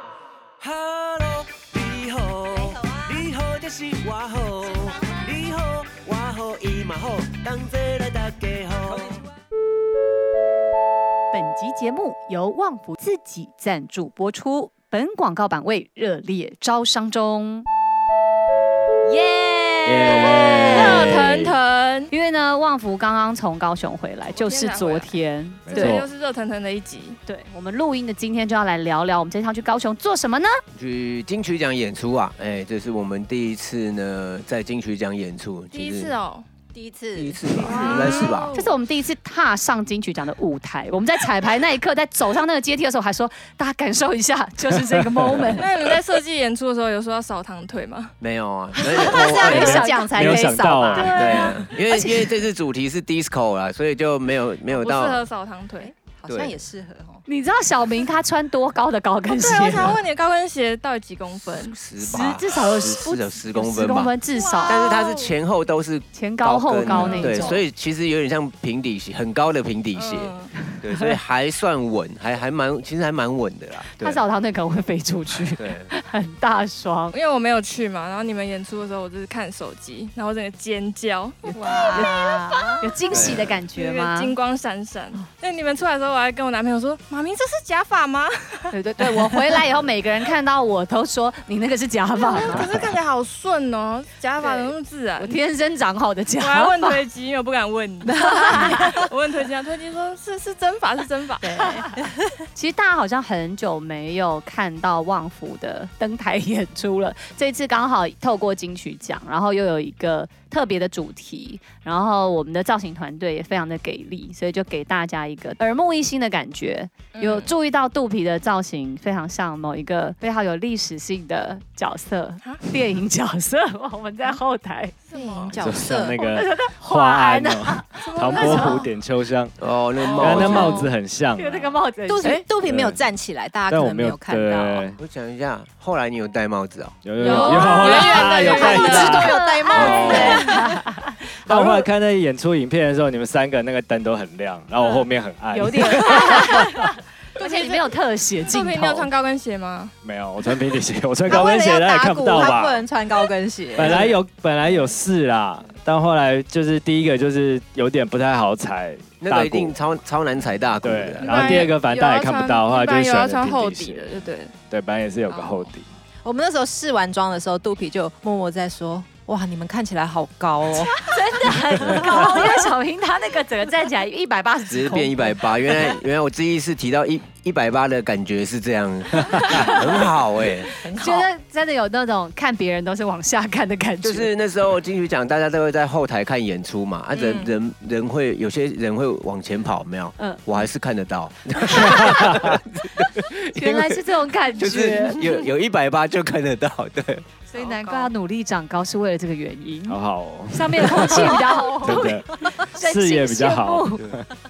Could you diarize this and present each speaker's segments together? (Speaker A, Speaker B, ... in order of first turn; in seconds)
Speaker A: 0.6-9.2, 30.8-36.1, 37.1-38.5, 48.2-49.8, 51.1-55.2, 56.3-56.6, 61.5-64.1, 64.7-74.2, 75.5-75.9, 83.1-83.6, 92.5-92.9, 129.6-130.9, 135.0-137.0, 139.7-140.4, 153.8-154.1, 159.2-161.7, 174.7-180.7, 184.0-197.2
Speaker B: 2.5-3.1, 19.9-20.7, 36.7-38.1, 48.9-51.7, 55.8-57.2, 64.5-65.0, 81.5-83.0, 98.2-99.1, 101.8-102.4, 125.1-126.2, 132.1-134.9, 137.5-140.8, 147.4-147.8, 151.3-154.1, 166.2-171.1, 171.9-172.6, 180.8-181.3, 201.0-202.7
Speaker C: 11.3-17.7, 19.1-21.3, 22.1-26.0, 27.3-30.6, 37.6-45.7, 48.9-52.3, 57.3-60.0, 62.0-64.8, 66.1-67.6, 74.0-77.2, 81.5-84.3, 88.7-92.7, 94.4-97.0, 98.2-99.0, 101.4-102.0, 102.5-125.0, 126.2-128.8, 131.4-132.4, 137.2-141.8, 145.5-149.1, 170.8-175.4, 179.5-179.8, 180.8-184.3, 193.6-195.2, 197.5-200.0, 200.5-204.1
Speaker D: 19.9-21.6, 25.7-26.1, 44.7-45.9, 49.5-51.1, 125.5-129.6, 130.2-131.8, 132.7-133.0, 133.7-135.0, 137.0-139.3, 141.5-146.9, 150.0-152.9, 153.8-159.8, 160.8-164.2, 164.7-165.9, 171.8-172.1, 191.8-192.6, 199.9-204.2
Speaker E: 20.5-22.1, 24.3-27.2, 35.7-36.5, 37.6-38.7, 45.5-48.1, 51.0-51.7, 54.7-55.9, 59.3-61.8, 64.4-65.3, 66.9-67.6, 70.0-70.5, 77.1-82.1, 83.2-88.8, 92.2-95.4, 96.4-101.8, 117.2-117.5, 125.1-125.5, 128.0-128.9, 130.0-130.9, 137.2-140.6, 144.8-145.1, 147.4-147.8, 148.4-149.9, 161.2-164.5, 165.3-165.7, 187.2-187.5, 197.5-198.1